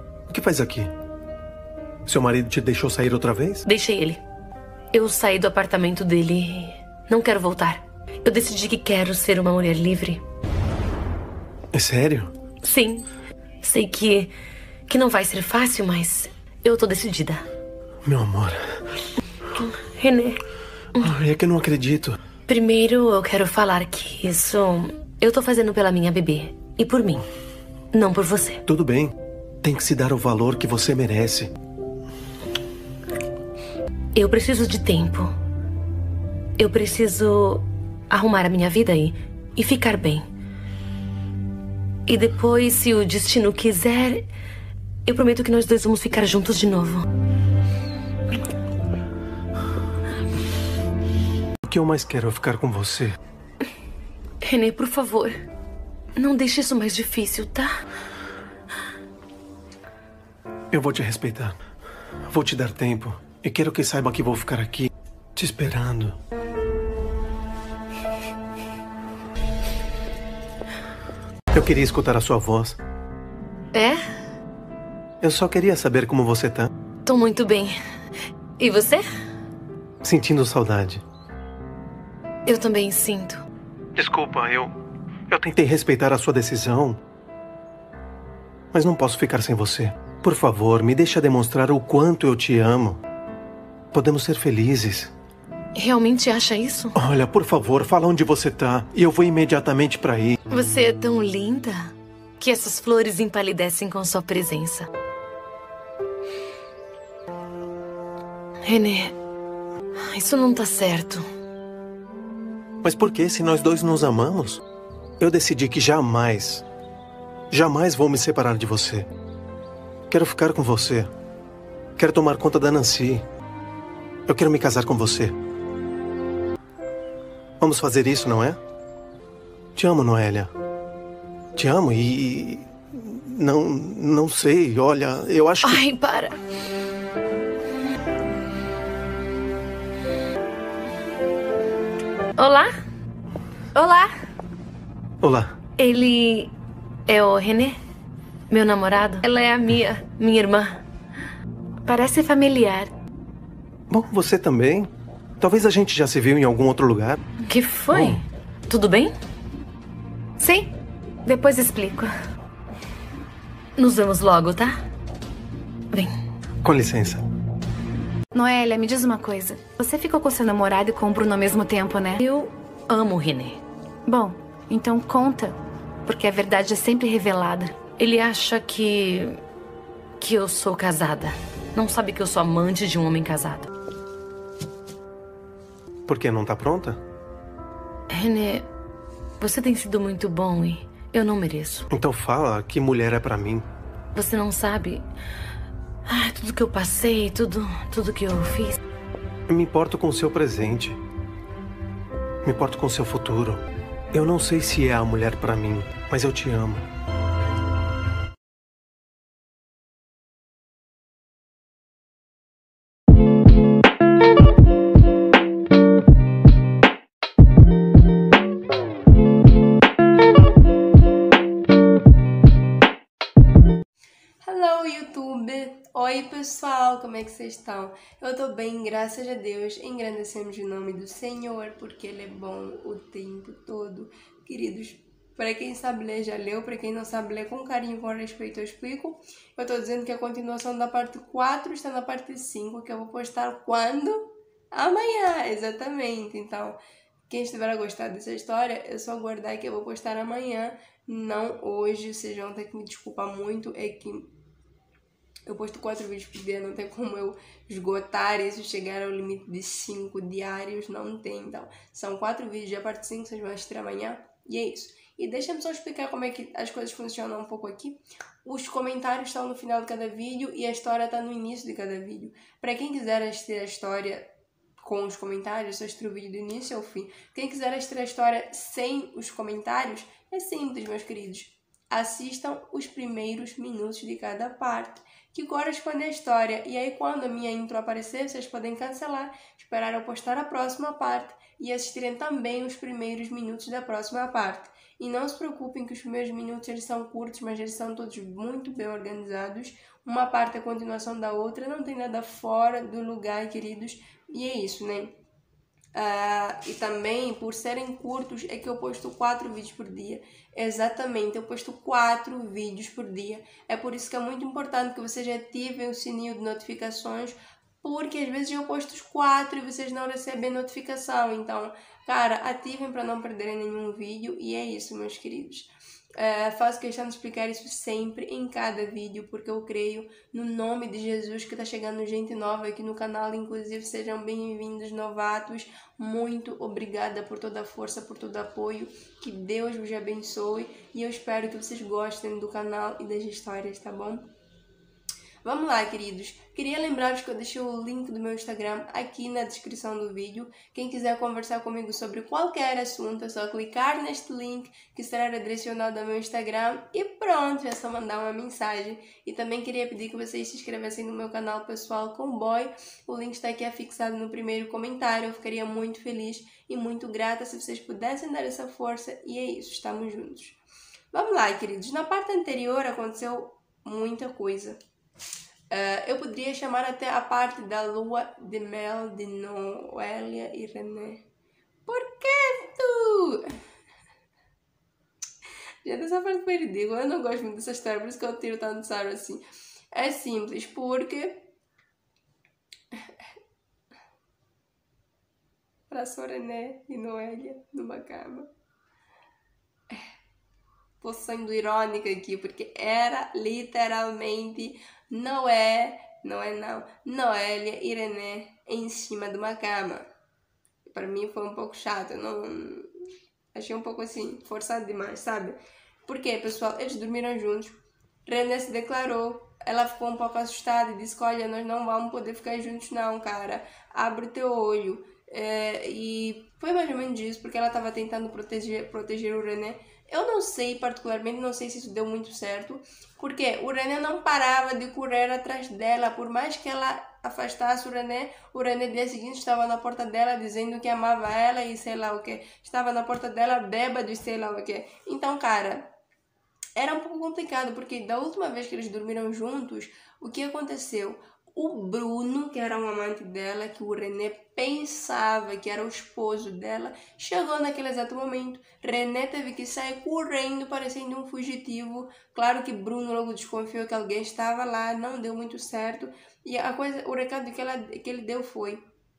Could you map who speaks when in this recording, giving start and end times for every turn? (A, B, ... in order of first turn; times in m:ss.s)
0:00.3-0:00.9 A
0:02.0-0:03.6 A
0:03.6-0:04.2 B
0:04.9-0:10.2 B
0:11.7-0:12.3 A
0:12.6-0:13.1 B
0:13.6-0:14.3 B
0:14.9-0:17.4 B
0:18.0-0:18.8 A
0:19.6-0:20.4 B
0:20.9-0:22.2 A
0:22.5-0:27.2 B
0:27.9-0:28.6 B
0:28.7-0:31.5 A
0:34.1-0:35.3 B
0:36.6-0:40.3 B
0:42.0-0:44.3 B
0:45.0-0:47.0 B
0:51.6-0:53.2 A
0:54.4-0:55.4 B
0:56.1-0:57.7 B
1:00.7-1:01.6 A
1:02.3-1:06.2 A
1:11.5-1:12.8 A
1:13.7-1:14.0 B
1:15.2-1:16.7 A
1:17.0-1:17.8 B
1:18.6-1:19.0 B
1:20.0-1:21.0 A
1:22.4-1:23.4 B
1:24.0-1:24.7 A
1:25.3-1:27.0 A
1:28.7-1:33.0 A
1:33.9-1:35.1 A
1:35.7-1:36.9 B
1:36.9-1:40.4 A
1:40.5-1:44.9 B
1:48.6-1:49.1 B
1:50.0-1:51.2 B
1:52.8-1:54.6 A
1:55.2-1:56.6 A
1:57.5-1:59.1 A
2:00.1-2:01.1 A
2:02.0-2:03.2 A
2:04.3-2:05.3 A
2:07.6-2:08.6 A
2:09.8-2:10.5 A
2:11.6-2:15.8 A
2:15.6-2:16.4 B
2:22.4-2:22.7 B
2:23.7-2:24.1 C
2:25.2-2:25.5 A
2:25.8-2:26.5 B
2:27.0-2:27.8 B
2:28.5-2:30.8 B
2:31.8-2:32.9 C
2:33.9-2:37.2 A
2:37.5-2:39.1 B
2:37.9-2:38.2 A
2:40.4-2:40.7 C
2:41.2-2:42.1 C
2:43.7-2:44.8 B
2:45.9-2:46.2 B
2:46.6-2:47.2 A
2:48.3-2:52.2 C
2:52.2-2:53.6 B
2:54.0-2:57.8 C
2:58.0-2:59.4 B
3:00.2-3:03.7 B
3:06.1-3:07.0 A
3:08.1-3:08.7 B
3:09.4-3:11.9 B
3:11.9-3:13.6 A
3:14.1-3:15.0 B
3:16.0-3:18.8 B
3:19.5-3:21.0 A
3:22.4-3:26.9 A
3:44.4-4:14.3 D
4:15.4-4:34.3 D
4:34.8-5:05.1 D
5:05.9-5:44.3 D
5:45.4-6:10.6 D
6:11.1-6:14.8 D
6:15.7-6:21.2 D
6:21.9-6:23.6 D
6:25.8-6:31.5 D
6:35.9-6:38.5 D
6:41.0-6:50.1 D
6:50.8-7:25.9 D
7:26.8-7:48.8 D